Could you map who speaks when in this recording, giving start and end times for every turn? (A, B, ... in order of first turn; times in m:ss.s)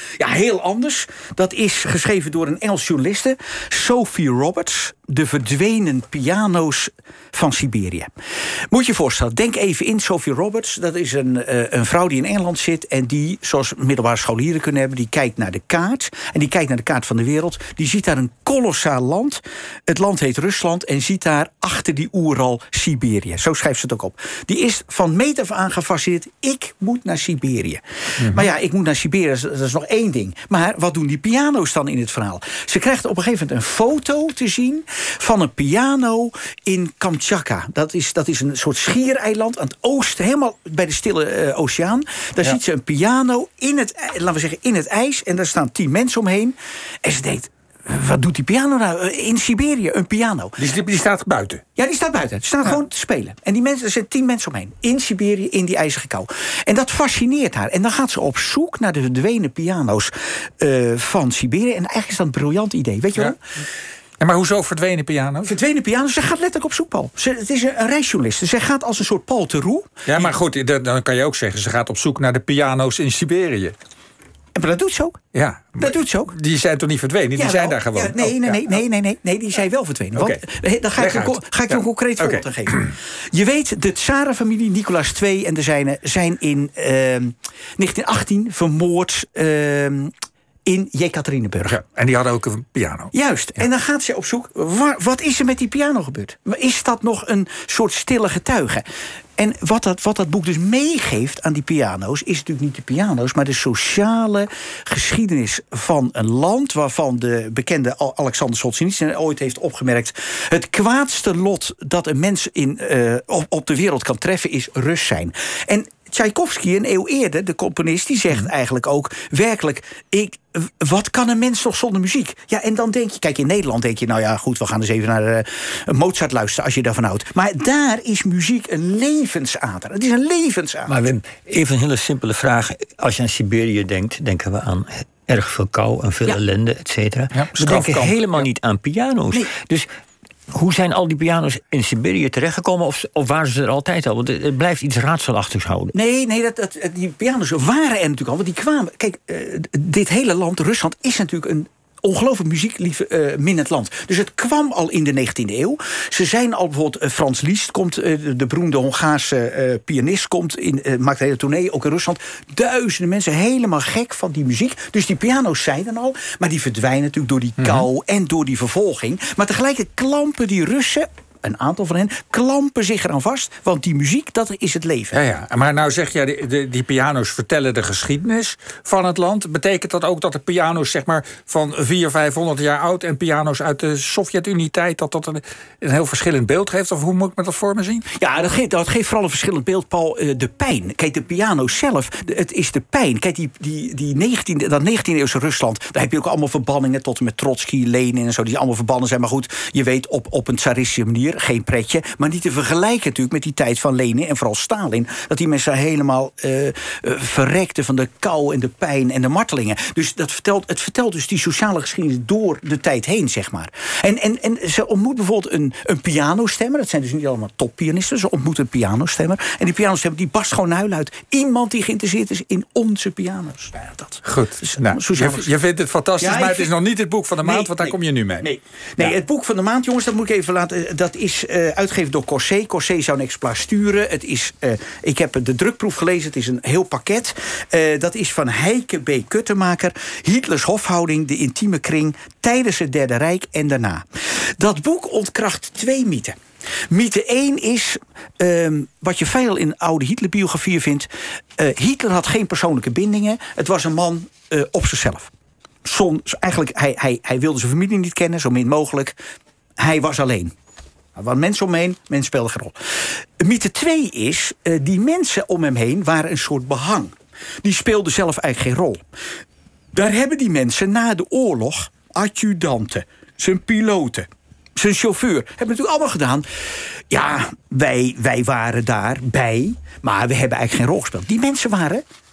0:00.2-0:08.1 A
0:08.7-0:50.6 A
0:28.2-0:28.5 B
0:50.6-0:51.6 B
0:51.8-1:03.4 A
1:04.2-1:05.5 B
1:05.4-1:10.3 A
1:10.1-1:13.7 B
1:14.5-1:15.2 A
1:15.3-1:18.7 B
1:15.8-1:16.3 A
1:17.3-1:30.1 A
1:20.2-1:20.4 B
1:21.0-1:22.9 B
1:30.6-1:31.8 A
1:31.6-1:33.1 B
1:33.1-1:38.8 A
1:39.4-2:10.9 A
2:10.9-2:19.9 C
2:17.3-2:18.4 B
2:20.5-2:25.9 C
2:25.9-2:55.2 A
2:55.1-3:08.0 B
3:08.1-3:45.5 A
3:44.2-3:48.5 B
3:46.2-3:46.7 A
3:47.4-4:04.0 A
4:04.6-4:06.4 A
4:06.9-4:15.3 A
4:15.8-4:19.2 A
4:19.8-4:20.5 A
4:21.1-4:22.7 A
4:23.4-4:29.0 A
4:29.9-4:42.0 A